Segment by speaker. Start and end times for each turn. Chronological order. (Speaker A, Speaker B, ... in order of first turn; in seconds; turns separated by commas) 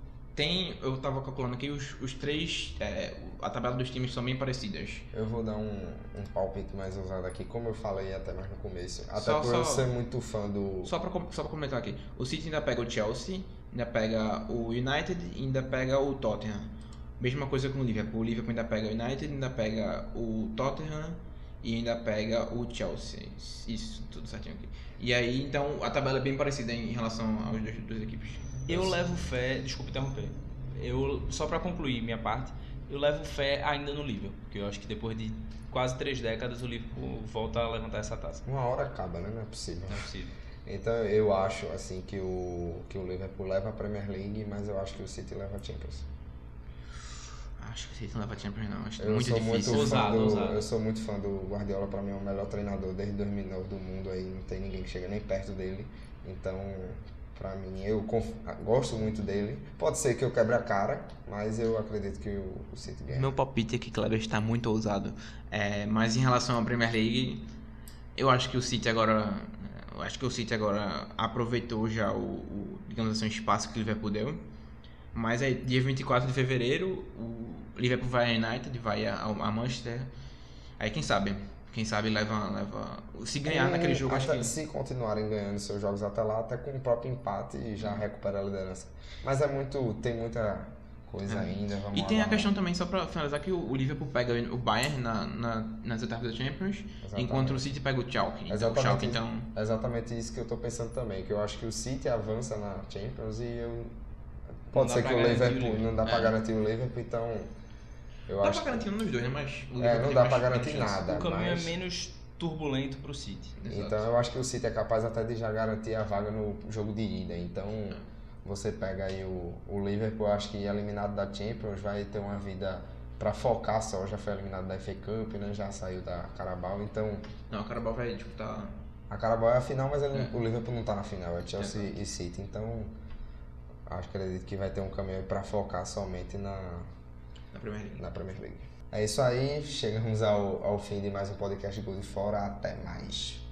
Speaker A: 0.3-5.0, Speaker B: 5.1-10.9, Speaker A: 9.2-9.9, Speaker A: 10.8-29.0, Speaker C: 28.7-38.4, Speaker B: 38.5-40.1, Speaker C: 39.9-40.3, Speaker B: 40.6-46.1, Speaker A: 47.6-50.1, Speaker B: 49.0-63.4, Speaker C: 49.6-50.7, Speaker A: 63.1-67.5, Speaker A: 68.2-74.4, Speaker A: 75.1-80.1, Speaker A: 80.8-84.5, Speaker B: 83.4-92.5, Speaker A: 91.3-99.5, Speaker B: 97.0-97.7, Speaker B: 98.5-103.9, Speaker B: 104.7-107.5, Speaker C: 104.7-105.9, Speaker A: 106.0-106.3, Speaker B: 108.3-108.9, Speaker A: 108.4-111.0, Speaker B: 109.8-111.7, Speaker C: 111.0-113.5, Speaker A: 113.6-114.1, Speaker B: 113.7-127.3, Speaker A: 127.5-128.7, Speaker B: 129.1-132.9, Speaker A: 130.1-130.4, Speaker A: 131.6-131.9, Speaker B: 133.9-136.9, Speaker A: 137.5-138.0, Speaker B: 138.0-143.4